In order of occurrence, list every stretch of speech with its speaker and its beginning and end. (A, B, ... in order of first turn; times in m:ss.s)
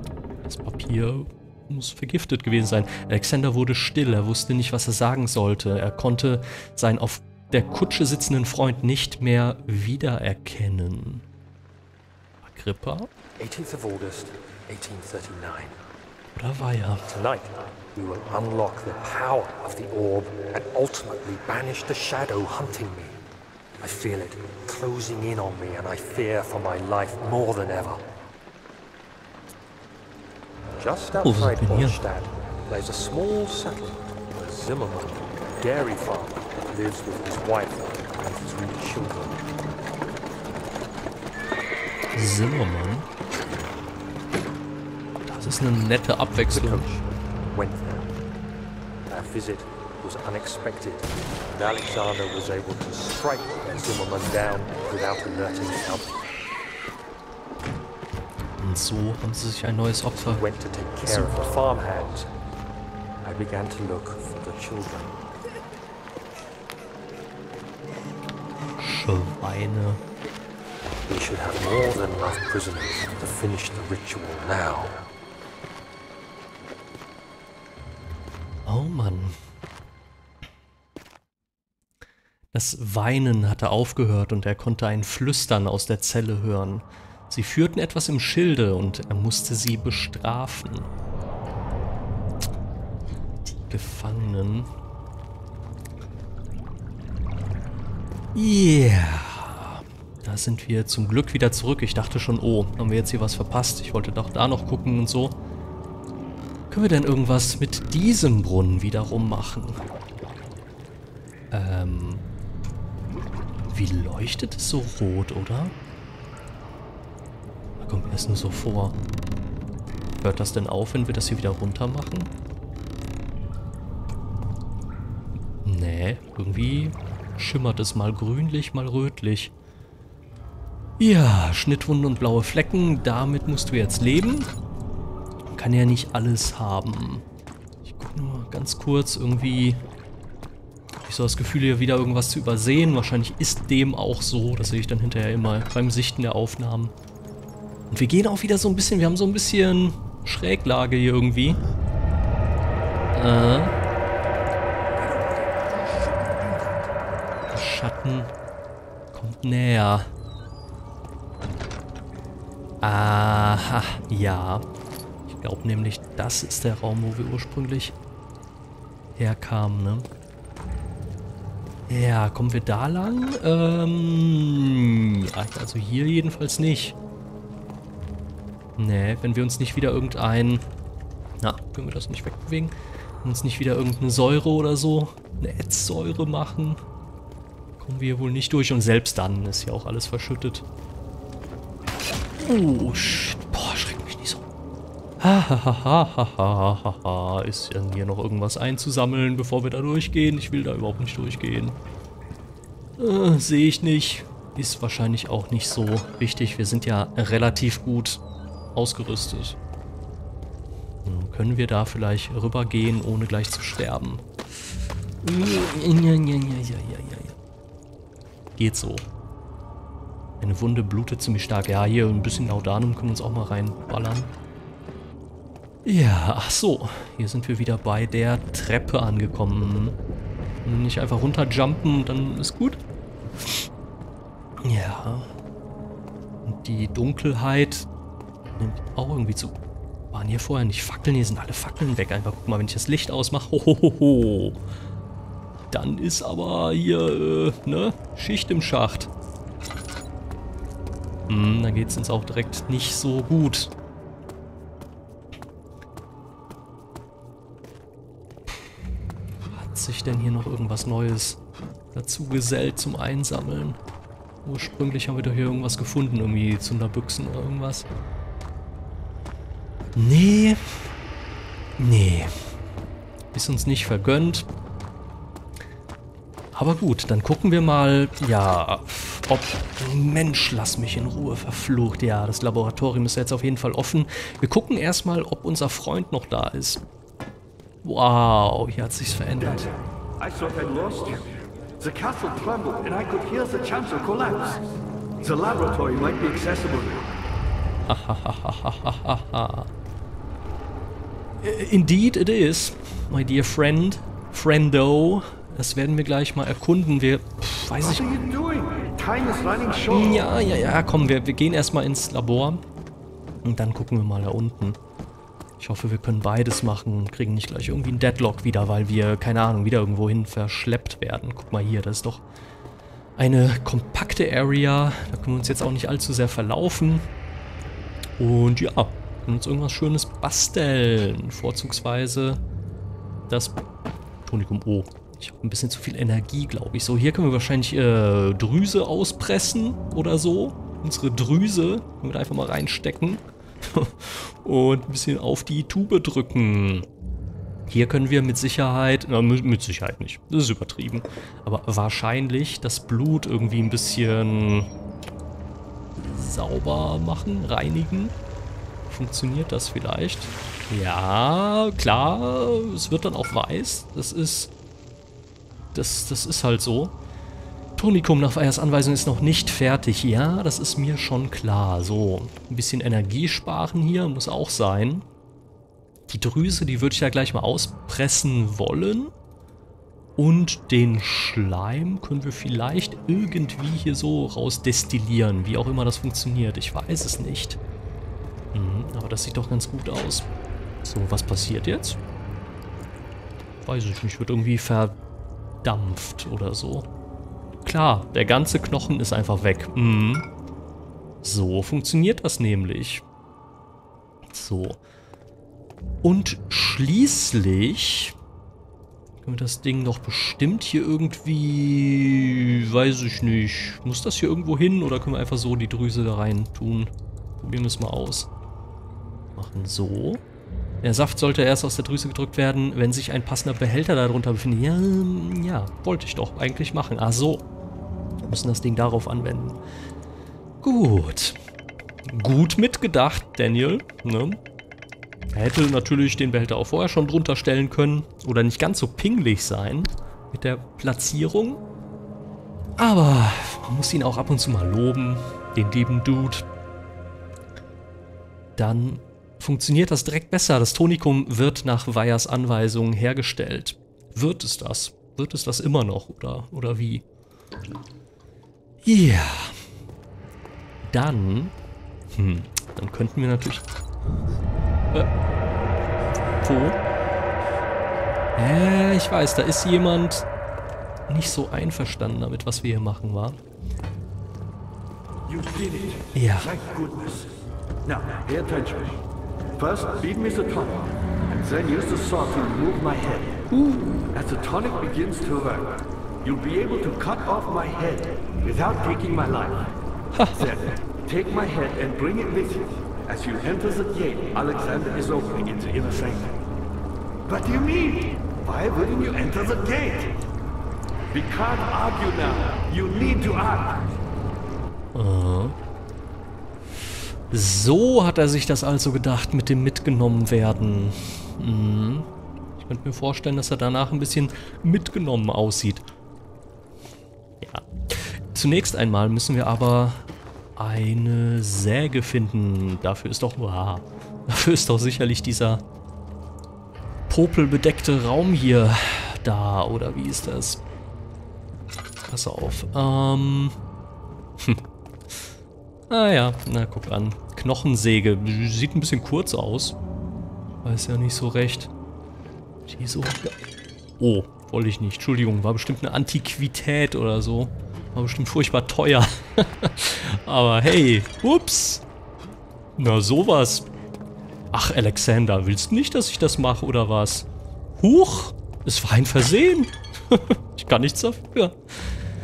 0:00.4-0:11.2 A
0:12.4-0:13.1 A
0:13.4-0:15.8 B
0:16.3-0:17.1 A
0:17.1-0:23.2 B
0:23.8-0:28.0 B
0:30.8-0:39.4 B
0:31.2-0:32.0 A
0:42.2-0:43.1 A
0:45.2-0:46.9 A
0:46.4-0:48.1 B
0:49.1-0:56.2 B
0:58.6-1:00.5 A
1:00.2-1:02.3 B
1:01.0-1:01.4 A
1:03.2-1:05.2 B
1:08.8-1:10.0 A
1:11.1-1:15.0 B
1:18.7-1:19.4 A
1:22.5-1:30.9 A
1:33.5-1:34.7 A
1:38.4-1:45.4 A
1:46.7-1:49.8 A
1:51.5-1:52.2 A
1:53.7-1:55.7 A
1:57.8-1:59.0 A
2:00.2-2:02.3 A
2:05.6-2:09.5 A
2:11.0-2:14.5 A
2:15.5-2:17.2 A
2:17.8-2:19.8 A
2:21.0-2:26.9 A
2:27.9-2:31.6 A
2:33.1-2:33.8 A
2:37.5-2:38.3 A
2:39.1-2:40.1 A
2:42.8-2:44.7 A
2:45.3-2:48.0 A
2:49.2-2:50.1 A
2:51.9-2:57.0 A
2:58.8-3:00.7 A
3:01.4-3:06.8 A
3:07.8-3:10.6 A
3:12.4-3:14.4 A
3:15.2-3:21.8 A
3:23.0-3:28.2 A
3:28.8-3:29.6 A
3:31.0-3:34.3 A
3:35.2-3:37.4 A
3:38.6-3:39.1 A
3:40.4-3:44.4 A
3:45.8-3:50.0 A
3:50.6-3:52.8 A
3:54.6-3:55.3 A
3:56.4-3:57.9 A
3:58.6-3:59.6 A
4:00.1-4:04.6 A
4:05.7-4:09.1 A
4:11.3-4:13.7 A
4:19.5-4:21.4 A
4:21.9-4:23.8 A
4:24.4-4:27.9 A
4:30.0-4:30.9 A
4:31.8-4:32.4 A
4:33.3-4:34.5 A
4:36.5-4:46.8 A
4:47.8-4:49.7 A
4:49.4-4:54.6 C
4:55.2-4:57.1 C
4:57.9-4:59.7 A
5:01.4-5:08.1 A
5:07.8-5:10.2 C
5:09.9-5:12.6 A
5:13.4-5:14.8 A
5:15.6-5:22.2 A
5:23.2-5:27.1 A
5:28.2-5:32.4 A
5:33.3-5:33.6 A
5:34.2-5:46.9 A
5:47.7-5:54.7 A
5:56.0-5:58.1 A
5:58.9-6:04.5 A
6:05.7-6:07.0 A
6:07.8-6:15.1 A
6:16.1-6:19.1 A
6:20.2-6:27.6 A
6:28.5-6:30.3 A
6:30.8-6:32.0 A
6:33.6-6:35.0 A
6:35.6-6:36.9 A
6:37.6-6:40.3 A
6:41.2-6:43.0 A
6:44.3-6:44.8 A
6:46.0-6:48.2 A
6:49.2-6:58.3 A
6:59.4-7:00.2 A
7:00.8-7:07.4 A
7:08.2-7:09.6 A
7:10.6-7:11.4 A
7:12.1-7:14.4 A
7:15.3-7:21.6 A
7:22.8-7:26.5 A
7:28.6-7:37.0 A
7:38.8-7:39.6 A
7:40.8-7:41.5 A
7:42.1-7:43.7 A
7:46.4-7:46.8 A
7:48.4-7:50.3 A
7:51.1-7:53.4 A
7:55.3-7:57.3 C
7:56.2-7:56.5 A
7:57.8-7:59.0 C
7:59.6-8:03.4 C
8:03.5-8:04.2 A
8:04.1-8:09.7 C
8:10.1-8:10.5 A
8:10.4-8:16.4 C
8:17.3-8:20.2 C
8:21.1-8:23.9 C
8:24.9-8:25.6 A
8:27.3-8:35.9 A
8:37.4-8:45.6 A
8:47.1-8:50.6 A
8:52.1-8:53.6 A
8:55.9-8:59.8 A
9:00.6-9:01.7 A
9:02.7-9:03.4 A
9:04.0-9:11.8 A
9:12.8-9:13.7 A
9:14.5-9:17.3 A
9:17.8-9:21.9 A